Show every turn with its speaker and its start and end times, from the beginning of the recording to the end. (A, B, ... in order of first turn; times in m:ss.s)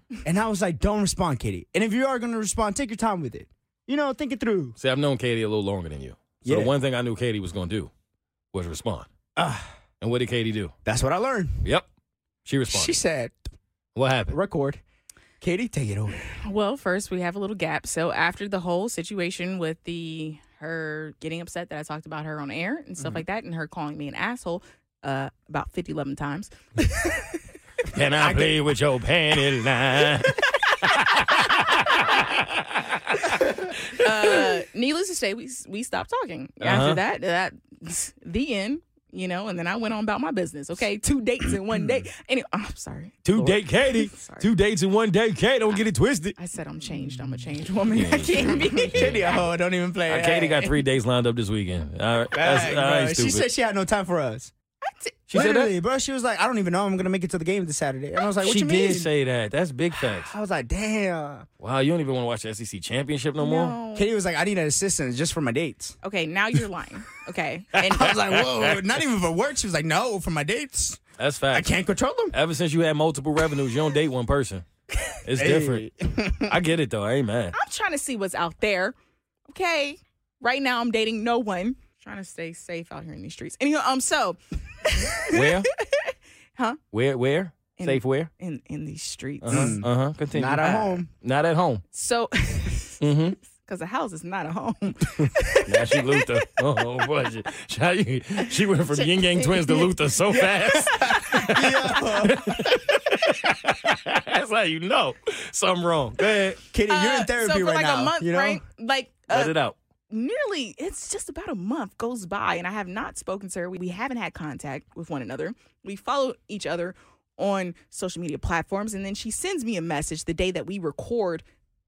0:00.2-0:04.8 A
0:04.8-0:07.9 B
0:06.4-0:06.7 A
0:08.5-0:09.1 B
0:09.4-0:09.7 A
0:10.0-0:10.7 B
0:10.8-0:11.6 A
0:12.4-0:13.0 B
0:12.7-0:13.5 A
0:13.9-0:14.4 B
0:14.3-0:14.8 A
0:15.4-0:16.2 A
0:16.4-0:27.3 C
0:27.9-0:34.1 B
0:28.2-0:28.6 A
0:33.9-0:44.5 C
0:36.6-0:37.0 B
0:41.7-0:42.0 A
0:43.2-0:46.4 B
0:46.4-0:49.4 C
0:47.9-0:49.2 B
0:48.4-0:50.7 A
0:50.1-0:53.5 B
0:52.3-0:54.5 A
0:54.8-0:55.2 C
0:55.3-0:55.7 B
0:55.3-0:59.1 A
0:58.4-1:00.3 B
1:00.1-1:01.5 A
1:01.6-1:03.8 B
1:03.4-1:04.1 C
1:03.9-1:06.0 A
1:06.0-1:08.2 C
1:07.8-1:12.3 A
1:08.0-1:09.0 B
1:11.2-1:11.7 B
1:12.3-1:14.6 B
1:15.2-1:17.6 B
1:15.3-1:16.6 A
1:17.5-1:18.9 C
1:19.5-1:26.8 C
1:25.3-1:25.7 B
1:26.9-1:28.3 B
1:27.8-1:29.8 C
1:29.4-1:31.8 B
1:29.5-1:31.1 A
1:31.9-1:33.0 C
1:33.0-1:33.4 B
1:33.6-1:36.4 C
1:35.6-1:46.6 B
1:39.4-1:39.9 C
1:40.6-1:42.6 A
1:40.9-1:41.5 C
1:46.7-1:48.6 A
1:46.9-1:49.6 C
1:49.3-1:49.8 B
1:50.1-2:01.4 C